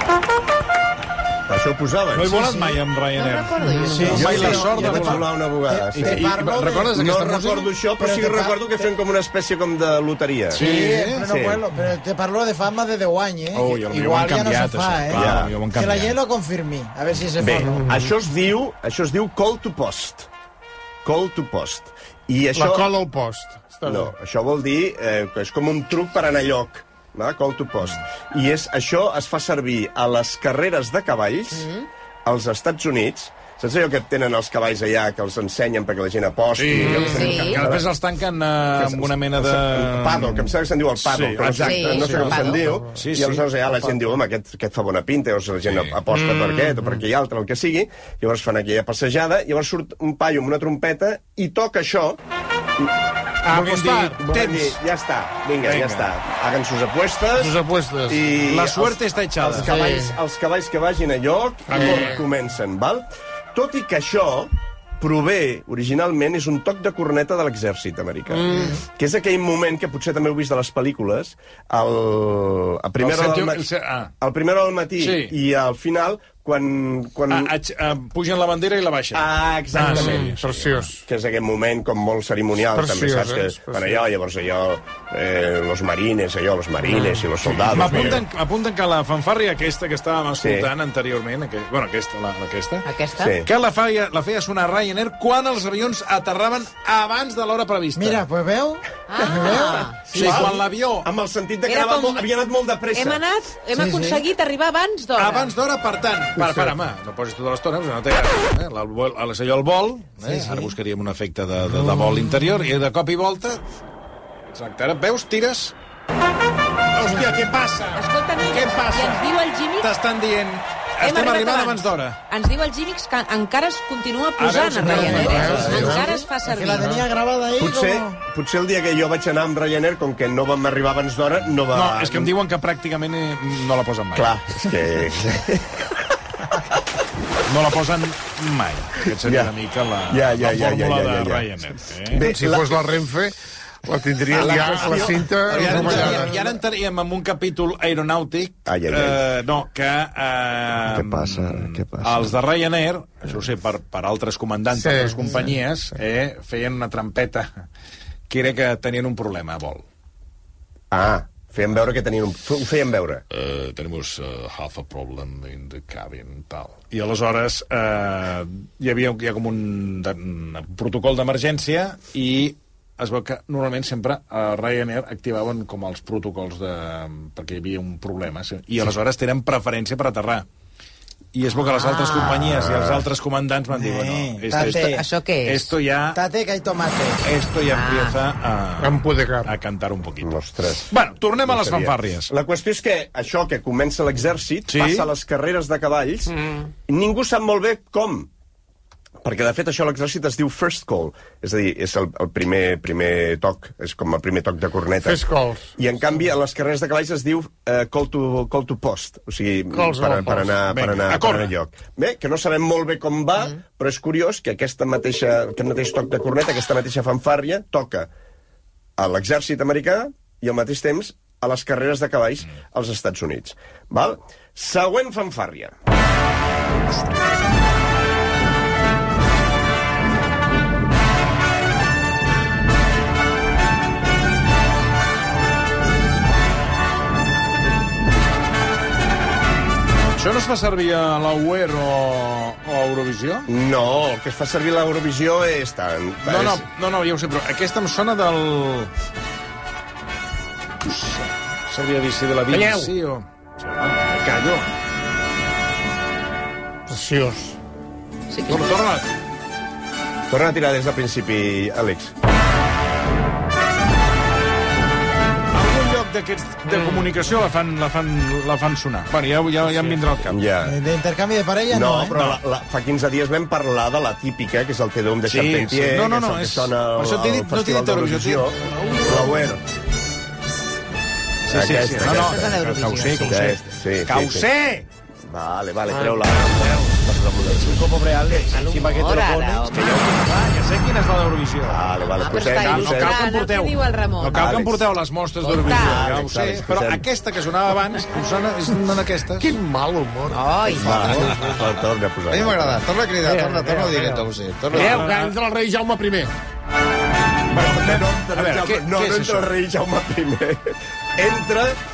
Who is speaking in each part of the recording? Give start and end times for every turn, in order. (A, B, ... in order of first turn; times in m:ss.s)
0:01.5-0:02.4 A
0:02.1-0:05.3 B
0:02.3-0:02.8 C
0:03.2-0:04.7 D
0:03.7-0:04.1 E
0:03.8-0:05.2 C
0:04.1-0:10.6 A
0:05.7-0:06.9 C
0:05.9-0:07.7 B
0:08.0-0:08.6 C
0:10.5-0:11.2 B
0:10.5-0:17.8 C
0:11.2-0:11.6 A
0:13.5-0:16.2 B
0:15.1-0:15.5 A
0:17.4-0:20.3 A
0:17.6-0:18.1 E
0:21.0-0:22.9 A
0:22.6-0:24.1 E
0:23.8-0:31.7 A
0:31.6-0:31.8 D
0:32.2-0:37.9 A
0:36.5-0:40.5 B
0:37.0-0:37.7 D
0:38.8-0:52.2 A
0:41.0-0:44.0 B
0:41.6-0:42.6 D
0:45.7-0:46.0 B
0:46.1-0:46.8 E
0:53.4-0:54.8 B
0:53.5-0:54.2 E
0:53.6-1:13.6 A
0:55.6-0:56.1 B
0:57.4-0:58.2 E
0:58.5-0:59.8 B
0:59.5-1:00.2 E
1:01.7-1:02.2 E
1:08.3-1:08.8 E
1:13.0-1:14.1 B
1:14.2-1:17.5 A
1:15.0-1:15.4 B
1:17.3-1:20.9 B
1:19.1-1:28.2 A
1:19.8-1:21.0 E
1:22.7-1:24.0 E
1:27.4-1:32.9 B
1:30.4-1:30.7 A
1:32.8-1:33.4 D
1:33.2-1:33.5 A
1:33.4-1:38.2 B
1:38.0-1:40.4 C
1:39.1-1:40.0 D
1:39.2-1:43.2 A
1:40.1-1:41.1 B
1:41.7-1:42.2 D
1:42.9-1:45.5 D
1:43.7-1:44.2 C
1:45.1-1:53.6 B
1:50.2-1:50.7 C
1:54.5-1:55.7 B
1:56.9-1:59.2 B
1:58.0-1:59.9 D
1:59.8-2:02.2 B
2:01.0-2:07.0 D
2:04.4-2:06.0 B
2:04.8-2:08.2 C
2:05.0-2:06.0 E
2:05.3-2:05.8 A
2:06.7-2:07.0 E
2:07.6-2:12.3 A
2:11.7-2:14.4 B
2:14.1-2:16.6 A
2:17.4-2:22.3 B
2:19.2-2:19.5 A
2:20.1-2:21.5 A
2:22.1-2:22.8 A
2:22.2-2:26.4 E
2:24.3-2:26.3 A
2:24.3-2:37.5 B
2:28.6-2:29.2 A
2:30.8-2:32.3 A
2:34.8-2:35.2 E
2:38.3-2:39.8 B
2:40.9-2:43.2 A
2:43.3-3:00.4 B
3:01.3-3:06.2 B
3:01.7-3:02.4 D
3:02.2-3:03.1 A
3:03.7-3:05.0 C
3:04.6-3:05.7 D
3:06.1-3:07.2 C
3:07.2-3:12.3 B
3:07.7-3:08.1 D
3:08.8-3:09.5 E
3:10.2-3:10.9 A
3:11.4-3:16.3 A
3:14.7-3:15.1 B
3:16.3-3:16.7 E
3:16.9-3:18.3 A
3:19.2-3:25.2 A
3:25.0-3:25.7 E
3:25.8-3:38.1 A
3:29.7-3:30.5 E
3:30.7-3:31.5 B
3:39.0-3:45.7 A
3:46.9-3:47.4 B
4:00.2-4:03.5 B
4:03.5-4:06.6 A
4:06.2-4:08.9 B
4:10.8-4:14.6 B
4:12.5-4:12.9 E
4:16.9-4:17.6 E
4:18.3-4:18.7 D
4:18.5-4:19.1 B
4:20.3-4:22.1 A
4:25.5-4:30.4 B
4:26.7-4:27.1 E
4:30.3-4:30.7 A
4:30.6-4:32.2 C
4:31.7-4:39.6 A
4:35.3-4:39.0 B
4:41.5-4:44.8 B
4:41.5-4:42.5 A
4:42.1-4:43.4 D
4:43.2-4:44.5 A
4:45.2-4:47.9 A
4:47.5-4:59.6 B
4:48.3-4:50.1 D
4:51.6-4:53.2 A
4:52.1-4:54.6 D
4:54.3-4:54.8 A
4:55.4-4:56.0 D
4:55.6-4:57.0 A
4:59.4-5:01.6 E
5:00.3-5:01.3 D
5:00.7-5:02.8 A
5:00.9-5:01.3 F
5:02.3-5:05.1 F
5:03.2-5:06.3 E
5:04.7-5:05.4 B
5:07.5-5:11.8 A
5:07.5-5:09.5 B